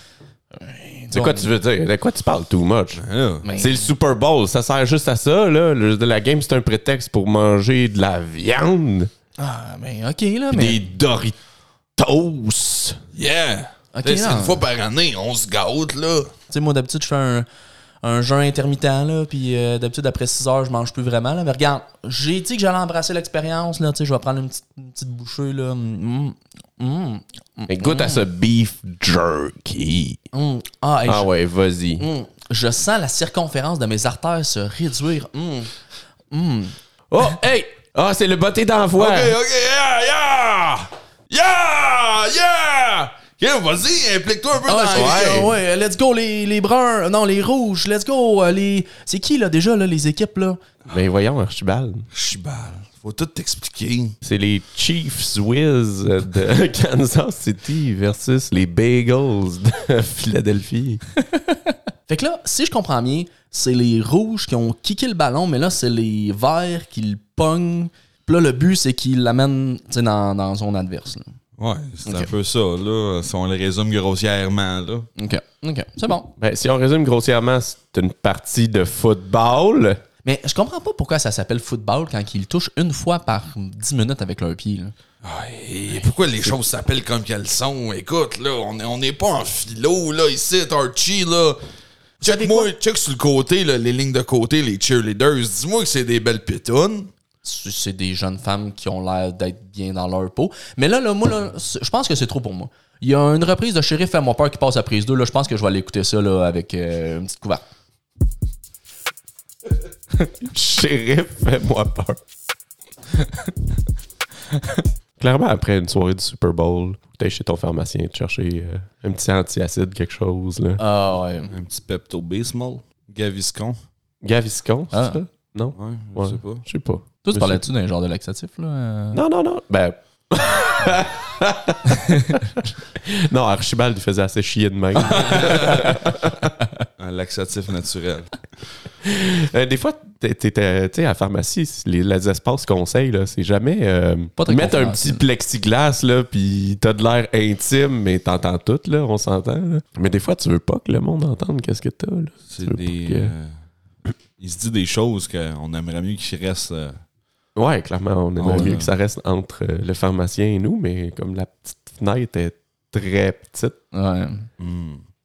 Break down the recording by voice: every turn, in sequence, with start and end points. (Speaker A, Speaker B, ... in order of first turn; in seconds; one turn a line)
Speaker A: 0.5-1.5
Speaker B: 1.1-3.0
Speaker C: 3.0-3.4
Speaker A: 3.4-3.9
Speaker B: 3.5-9.1
Speaker A: 9.4-10.8
Speaker B: 10.5-11.4
Speaker B: 12.0-13.0
Speaker C: 13.1-16.3
Speaker A: 13.9-14.6
Speaker A: 16.5-17.5
Speaker A: 18.0-28.2
Speaker B: 27.7-30.2
Speaker A: 30.3-31.3
Speaker B: 31.1-32.1
Speaker A: 32.0-35.7
Speaker A: 36.3-37.3
Speaker B: 37.1-39.4
Speaker C: 39.0-45.5
Speaker A: 44.6-50.6
Speaker B: 44.9-45.5
Speaker B: 50.9-52.1
Speaker C: 52.1-54.2
Speaker B: 54.2-61.0
Speaker A: 61.4-71.4
Speaker C: 71.6-75.1
Speaker A: 72.1-72.3
Speaker A: 75.2-76.3
Speaker B: 76.4-80.0
Speaker A: 80.2-84.9
Speaker C: 85.2-91.6
Speaker A: 92.2-92.7
Speaker C: 92.2-97.1
Speaker A: 97.4-107.6
Speaker B: 110.4-112.2
Speaker B: 115.2-120.8
Speaker A: 120.8-121.5
Speaker C: 121.5-123.8
Speaker B: 124.2-127.6
Speaker A: 124.9-125.2
Speaker C: 125.8-126.6
Speaker A: 127.2-129.2
Speaker B: 129.1-131.8
Speaker A: 131.9-132.4
Speaker B: 132.8-136.4
Speaker C: 135.1-135.9
Speaker C: 137.0-138.4
Speaker B: 139.0-153.3
Speaker A: 144.4-145.2
Speaker C: 152.5-153.6
Speaker C: 154.4-157.0
Speaker B: 157.6-163.8
Speaker C: 158.4-158.9
Speaker A: 163.9-164.5
Speaker C: 164.6-165.0